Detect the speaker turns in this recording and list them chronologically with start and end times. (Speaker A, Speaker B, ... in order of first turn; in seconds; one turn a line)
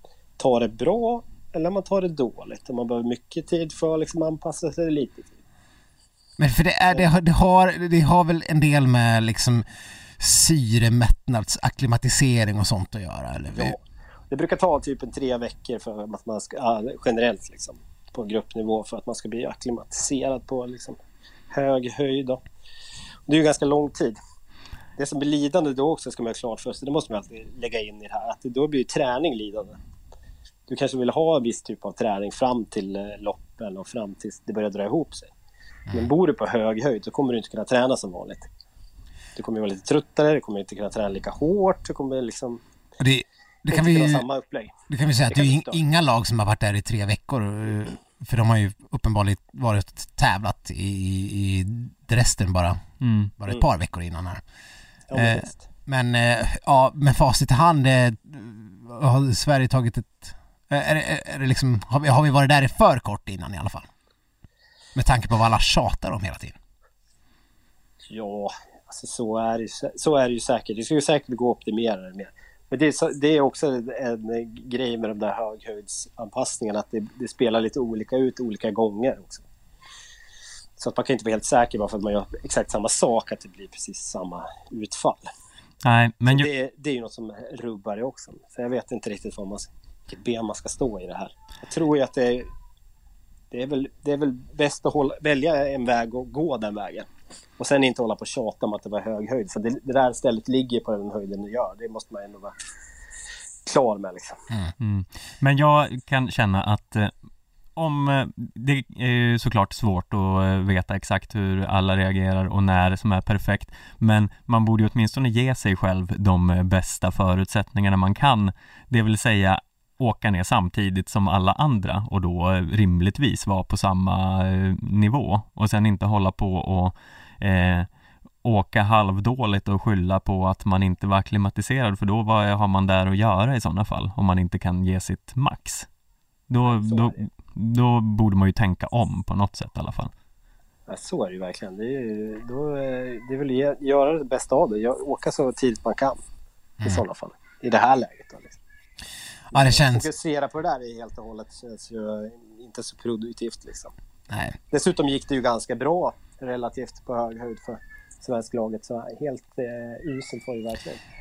Speaker A: 0.4-5.4
Speaker B: 6.4-9.6
Speaker B: 10.2-13.8
Speaker A: 13.5-13.8
Speaker A: 14.3-21.0
Speaker A: 21.5-22.4
Speaker A: 23.3-24.2
Speaker A: 25.0-29.8
Speaker A: 30.7-35.3
Speaker A: 35.9-38.5
Speaker A: 39.4-42.6
Speaker B: 43.0-44.2
Speaker A: 43.7-44.7
Speaker B: 44.9-52.8
Speaker A: 45.3-45.8
Speaker C: 53.0-53.3
Speaker B: 53.4-54.4
Speaker A: 55.1-55.6
Speaker B: 55.1-63.9
Speaker B: 64.9-66.5
Speaker A: 68.1-79.4
Speaker A: 80.8-85.3
Speaker C: 85.8-86.5
Speaker A: 86.2-92.5
Speaker A: 93.5-102.5
Speaker A: 103.6-104.4
Speaker C: 104.8-107.1
Speaker C: 107.8-127.9
Speaker C: 128.4-135.9
Speaker C: 136.5-140.1
Speaker A: 136.6-137.2
Speaker A: 140.9-146.2
Speaker A: 146.8-148.6
Speaker B: 149.5-150.1
Speaker A: 149.5-153.9
Speaker B: 154.3-154.6
Speaker A: 154.7-161.0